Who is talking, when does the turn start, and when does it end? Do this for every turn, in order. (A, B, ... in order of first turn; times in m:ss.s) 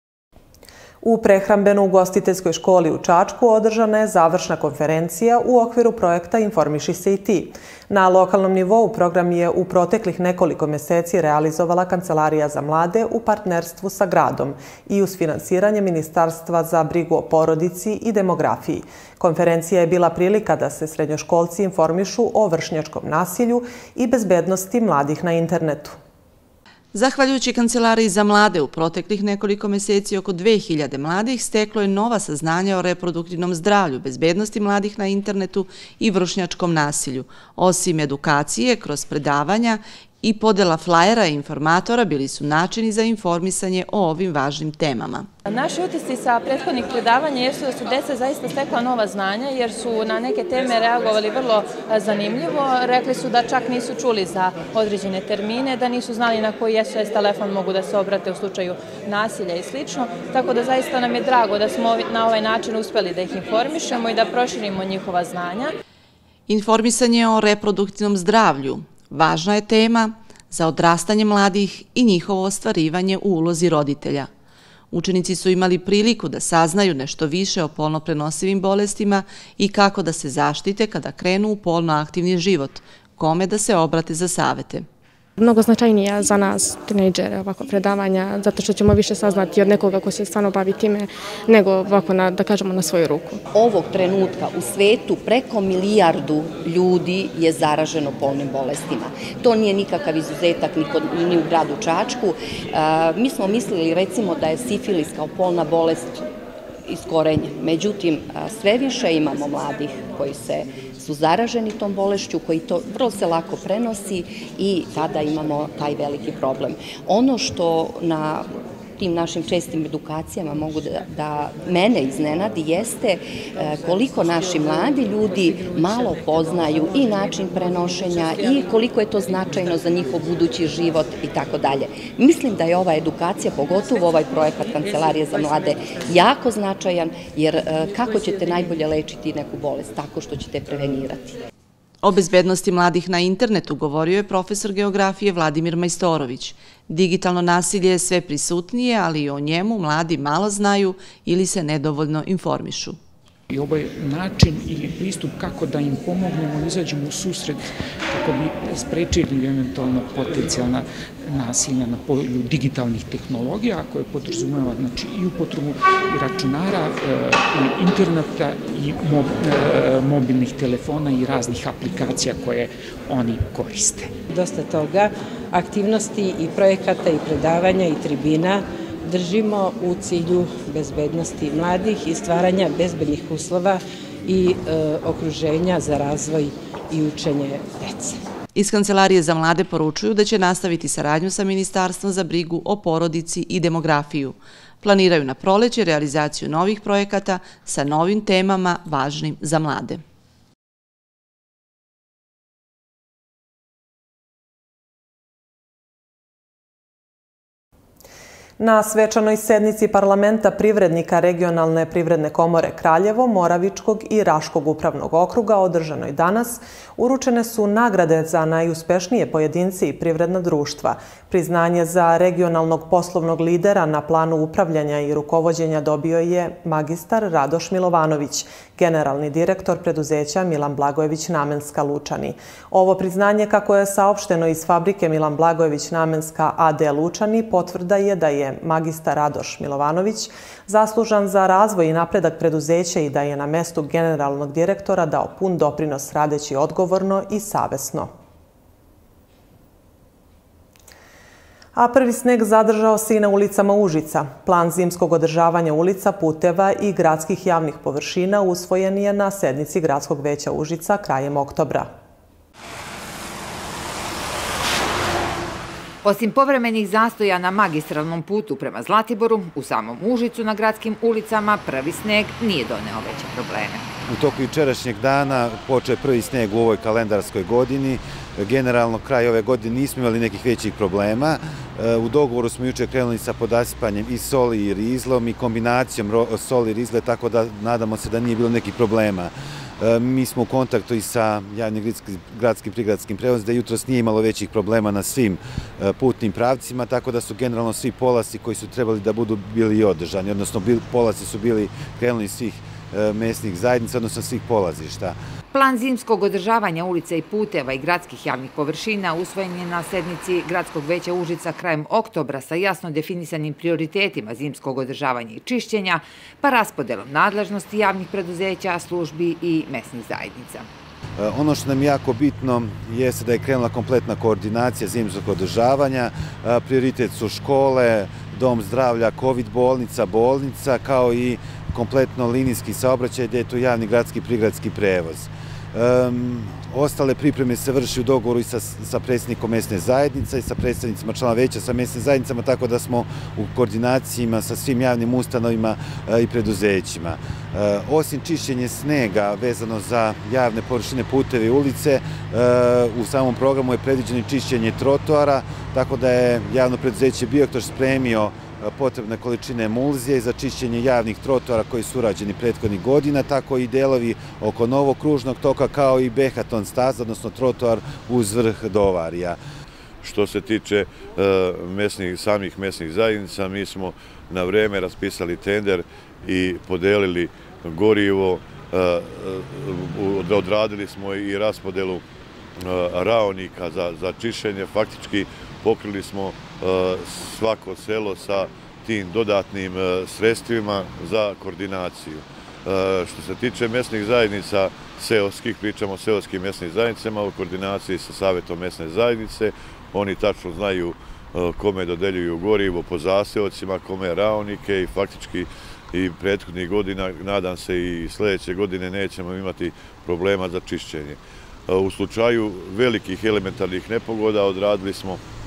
0:01.0-0:26.0 A
0:26.9-0:45.3 B
0:45.5-1:05.7 C
1:06.5-1:14.3 B
1:14.9-1:24.8 B
1:25.4-1:33.4 D
1:33.5-1:46.2 E
1:46.8-1:58.5 E
1:59.0-2:21.3 E
2:22.0-2:33.0 B
2:33.5-2:54.1 F
2:54.3-3:08.2 G
3:08.5-3:20.0 B
3:28.6-4:08.1 A
4:11.7-4:21.9 A
4:26.0-4:33.9 H
4:34.0-5:05.2 I
5:05.5-5:20.7 H
5:21.2-6:09.4 I
6:10.0-6:22.0 J
6:22.6-6:55.2 J